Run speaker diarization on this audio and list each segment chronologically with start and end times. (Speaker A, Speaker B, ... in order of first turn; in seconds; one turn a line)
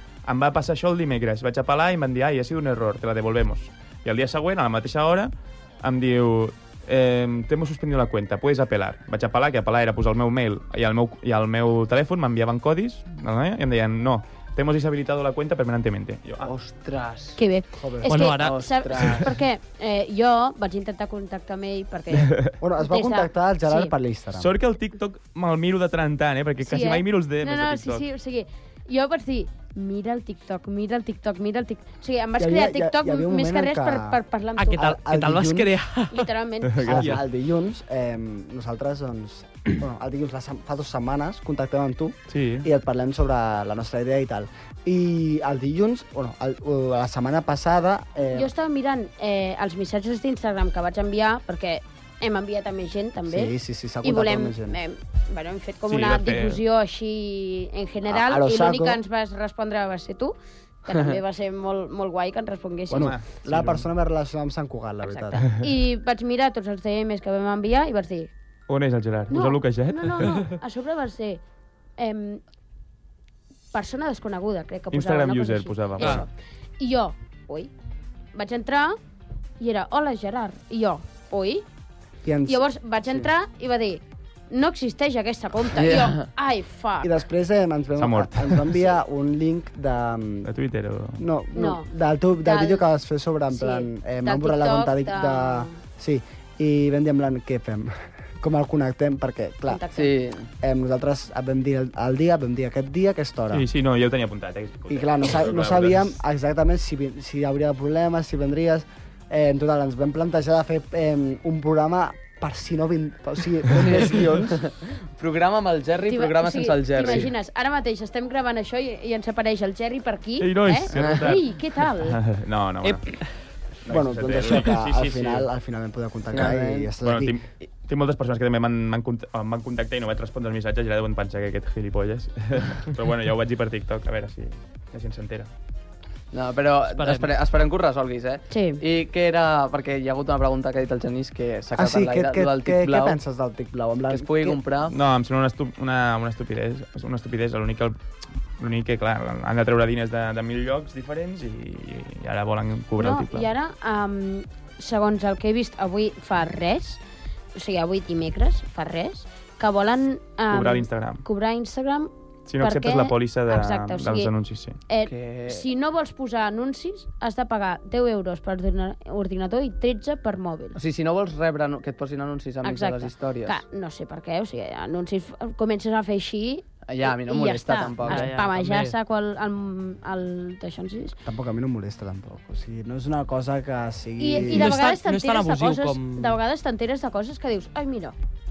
Speaker A: 0.2-5.3
Speaker A: 5.8-16.5
Speaker B: 16.4-17.4
Speaker C: 17.4-23.9
Speaker D: 17.8-18.1
Speaker E: 18.1-18.6
Speaker B: 18.3-19.3
Speaker A: 22.2-22.5
Speaker D: 22.6-24.5
Speaker A: 24.4-28.0
Speaker C: 26.6-34.9
Speaker D: 32.4-34.2
Speaker E: 34.6-36.3
Speaker D: 34.7-35.7
Speaker C: 36.1-37.0
Speaker A: 36.7-37.2
Speaker D: 36.8-48.5
Speaker A: 42.3-42.7
Speaker C: 48.3-63.1
Speaker D: 53.2-54.8
Speaker A: 55.9-56.6
Speaker D: 58.1-59.0
Speaker D: 62.9-65.5
Speaker A: 62.9-63.9
Speaker C: 65.0-68.3
Speaker A: 68.7-70.4
Speaker C: 69.3-71.4
Speaker C: 72.0-72.4
Speaker C: 73.7-77.7
Speaker A: 74.9-76.2
Speaker C: 78.3-79.0
Speaker C: 79.6-81.6
Speaker D: 82.2-83.3
Speaker C: 82.5-87.1
Speaker B: 85.7-86.3
Speaker D: 87.0-90.5
Speaker A: 88.0-88.7
Speaker A: 90.4-91.2
Speaker D: 91.2-99.8
Speaker C: 91.5-91.9
Speaker C: 92.4-92.8
Speaker C: 93.5-95.8
Speaker C: 99.7-100.1
Speaker B: 99.9-100.5
Speaker D: 100.6-103.7
Speaker A: 103.5-106.1
Speaker D: 104.9-114.6
Speaker B: 113.8-117.3
Speaker C: 116.1-122.2
Speaker A: 120.4-123.1
Speaker B: 120.9-121.2
Speaker E: 122.8-123.2
Speaker A: 123.8-125.5
Speaker D: 123.9-127.3
Speaker B: 126.3-126.9
Speaker A: 127.0-135.5
Speaker B: 136.3-143.2
Speaker E: 137.0-137.3
Speaker C: 138.5-138.8
Speaker D: 141.7-144.6
Speaker B: 144.1-144.9
Speaker A: 144.9-147.9
Speaker A: 148.6-153.5
Speaker C: 153.0-157.0
Speaker C: 157.5-162.1
Speaker A: 160.5-161.2
Speaker A: 162.5-164.8
Speaker C: 162.6-164.3
Speaker C: 164.9-170.8
Speaker B: 165.0-165.6
Speaker B: 170.7-173.6
Speaker C: 172.6-181.2
Speaker B: 176.8-178.3
Speaker E: 178.0-178.9
Speaker D: 181.2-184.8
Speaker C: 184.2-188.2
Speaker E: 184.4-186.4